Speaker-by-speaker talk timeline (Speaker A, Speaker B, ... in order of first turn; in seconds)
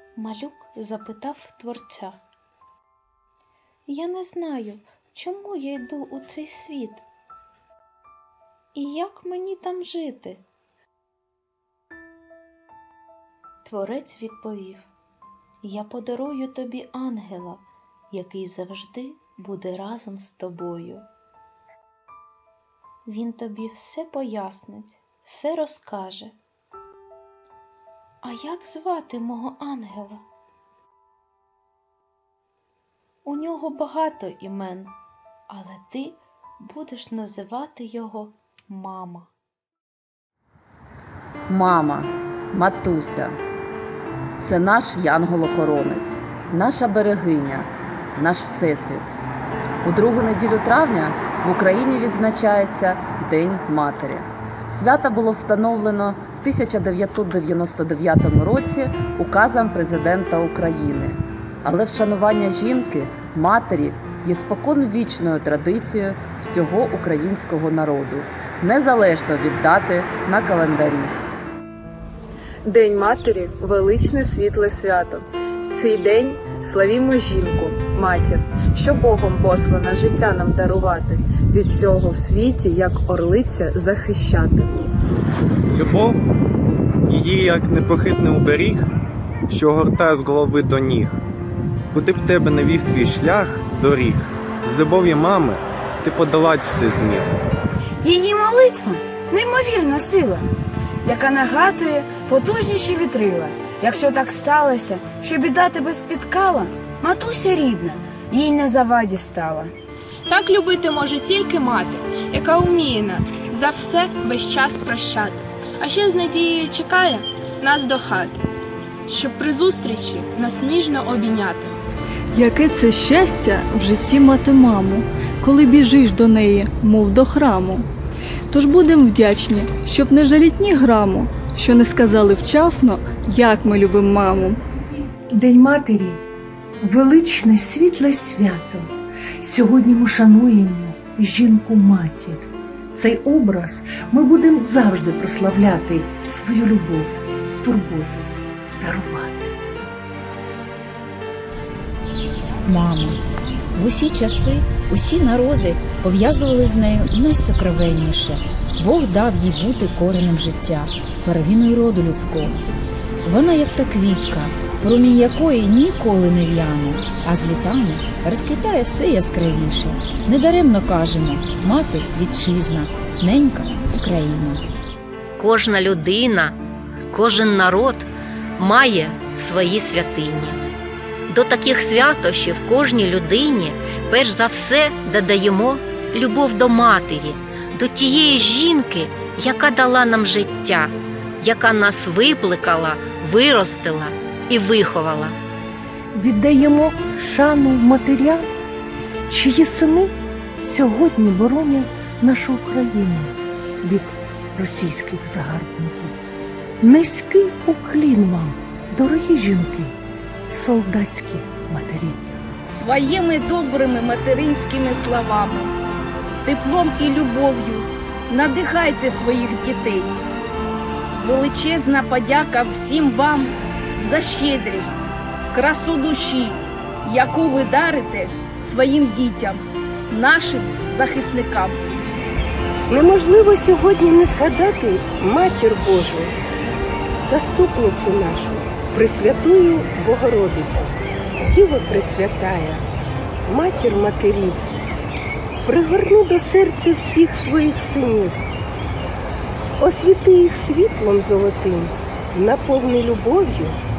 Speaker A: 0.2-2.2, 3.9-7.0, 8.8-10.4, 13.7-14.9, 15.7-21.1, 23.1-26.3, 28.3-30.2, 33.3-34.9, 35.6-36.2, 36.8-38.3, 38.9-39.3
Speaker B: 41.5-43.4, 44.4-49.1, 49.8-71.2
Speaker C: 72.9-75.0, 76.7-77.5, 79.0-81.1, 81.8-83.5
Speaker D: 85.7-86.2, 87.1-88.8, 89.5-91.2, 91.9-97.3
Speaker E: 98.0-100.4, 101.0-109.7, 212.7-215.7, 216.4-220.1, 221.2-225.0, 225.5-231.8
Speaker F: 110.3-118.4, 119.1-121.8
Speaker G: 122.3-127.9, 128.5-134.6
Speaker H: 135.3-136.2, 136.8-148.3, 148.8-149.6, 196.1-198.5, 199.3-206.2, 206.8-210.0, 210.5-212.3
Speaker I: 152.6-153.2, 153.7-162.6, 163.2-174.6
Speaker J: 175.4-176.6, 177.1-180.6, 181.3-195.4
Speaker K: 232.9-236.3, 237.2-240.9, 241.5-242.8, 243.5-244.6, 245.7-248.4, 249.8-253.8